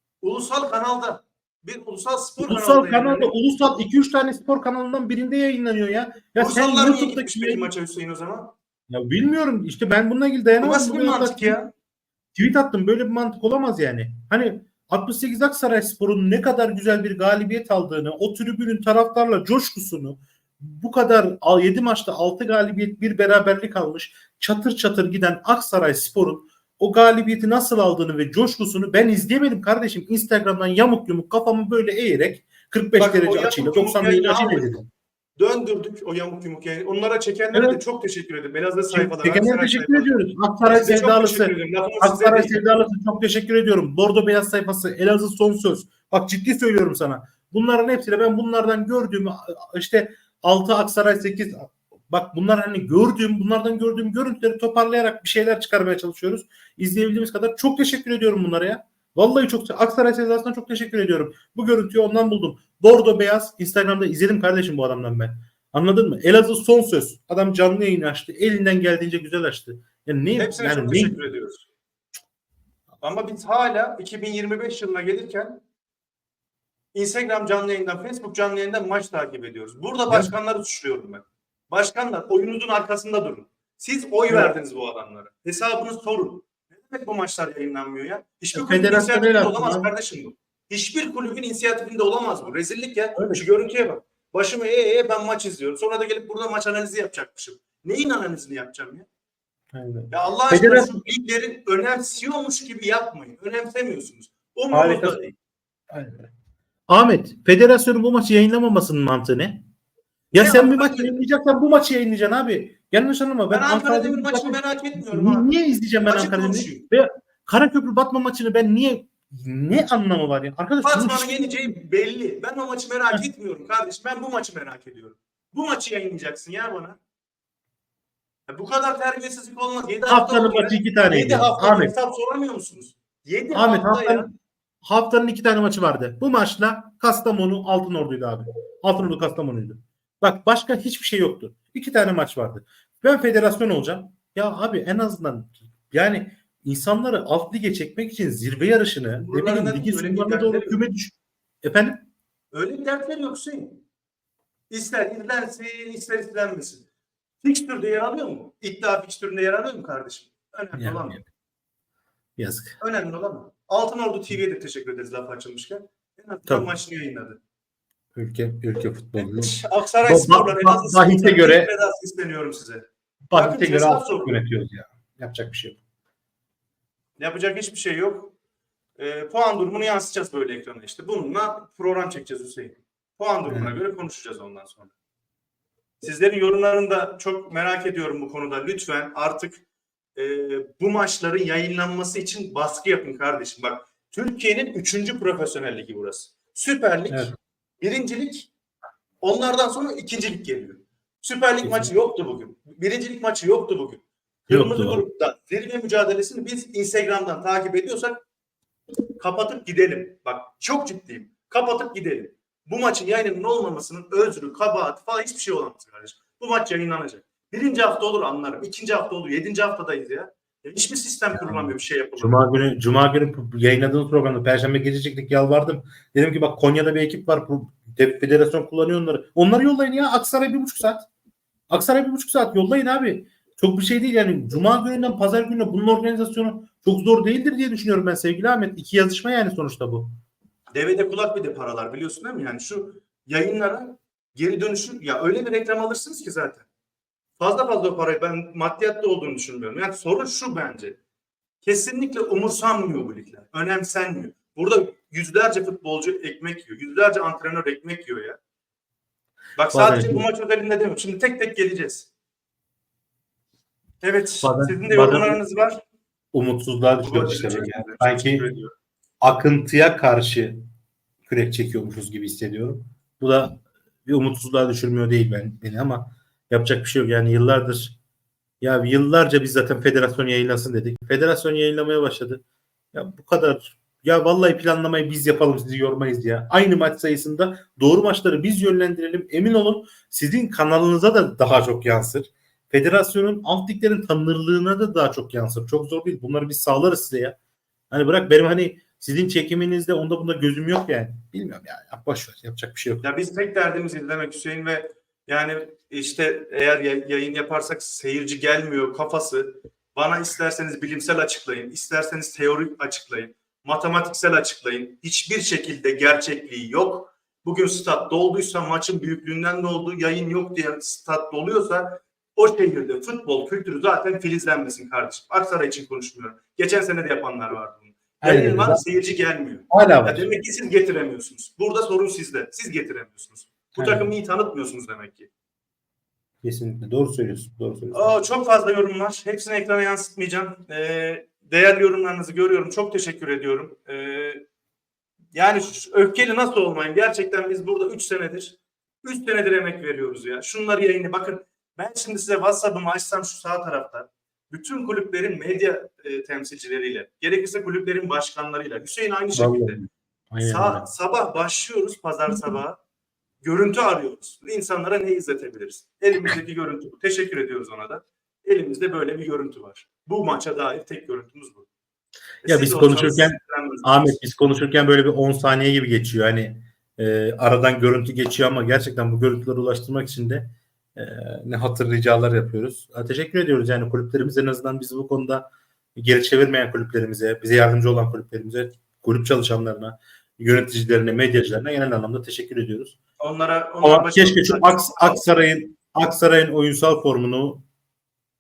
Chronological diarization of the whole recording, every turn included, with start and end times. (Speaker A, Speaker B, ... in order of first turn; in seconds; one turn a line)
Speaker A: 0.2-3.3
Speaker B: 2.4-7.6
Speaker A: 6.4-8.5
Speaker B: 8.9-11.6
Speaker A: 10.6-11.7
Speaker B: 12.3-34.9
Speaker A: 33.0-34.8
Speaker A: 35.4-40.2
Speaker B: 37.5-37.8
Speaker B: 38.9-71.2
Speaker A: 40.7-42.6
Speaker A: 70.4-71.7
Speaker A: 73.0-75.6
Speaker A: 76.9-99.1
Speaker B: 88.5-89.9
Speaker B: 93.2-93.5
Speaker B: 99.7-101.0
Speaker A: 100.1-105.3
Speaker B: 104.7-105.2
Speaker B: 105.9-106.3
Speaker B: 106.9-109.6
Speaker B: 110.3-121.5
Speaker A: 110.4-111.2
Speaker A: 113.5-115.5
Speaker A: 116.0-116.8
Speaker A: 120.8-127.0
Speaker A: 128.5-134.3
Speaker B: 130.1-131.9
Speaker B: 133.5-134.3
Speaker B: 134.8-152.1
Speaker A: 149.2-150.8
Speaker A: 152.5-153.8
Speaker A: 154.7-156.9
Speaker A: 157.4-161.2
Speaker B: 160.8-161.2
Speaker B: 162.4-162.8
Speaker A: 162.8-167.4
Speaker B: 168.2-169.6
Speaker A: 169.2-174.4
Speaker B: 170.1-171.7
Speaker B: 173.3-175.8
Speaker A: 177.2-178.3
Speaker A: 179.0-184.9
Speaker B: 183.5-183.8
Speaker A: 186.0-189.6
Speaker A: 190.2-197.3
Speaker B: 197.1-197.4
Speaker A: 197.8-198.5
Speaker A: 199.2-208.2
Speaker B: 201.6-201.9
Speaker B: 204.5-205.0
Speaker A: 209.2-222.4
Speaker B: 221.4-231.1
Speaker B: 231.7-240.1
Speaker A: 240.7-246.7
Speaker A: 247.4-251.0
Speaker A: 251.6-258.4
Speaker A: 259.6-262.1
Speaker B: 259.7-260.2
Speaker A: 264.0-265.8
Speaker B: 264.4-265.4
Speaker B: 266.3-268.4
Speaker A: 267.0-268.7
Speaker B: 269.2-270.6
Speaker B: 271.3-278.0
Speaker B: 278.6-297.4
Speaker B: 297.9-303.1
Speaker A: 303.0-335.3
Speaker B: 328.2-328.8
Speaker B: 329.7-330.3
Speaker B: 333.8-334.1
Speaker B: 336.4-338.1
Speaker A: 337.9-344.4
Speaker A: 345.3-359.8
Speaker B: 359.4-360.9
Speaker A: 360.4-362.8
Speaker A: 363.4-371.7
Speaker A: 372.4-374.2
Speaker B: 372.5-393.0
Speaker A: 393.2-395.2
Speaker B: 393.8-397.6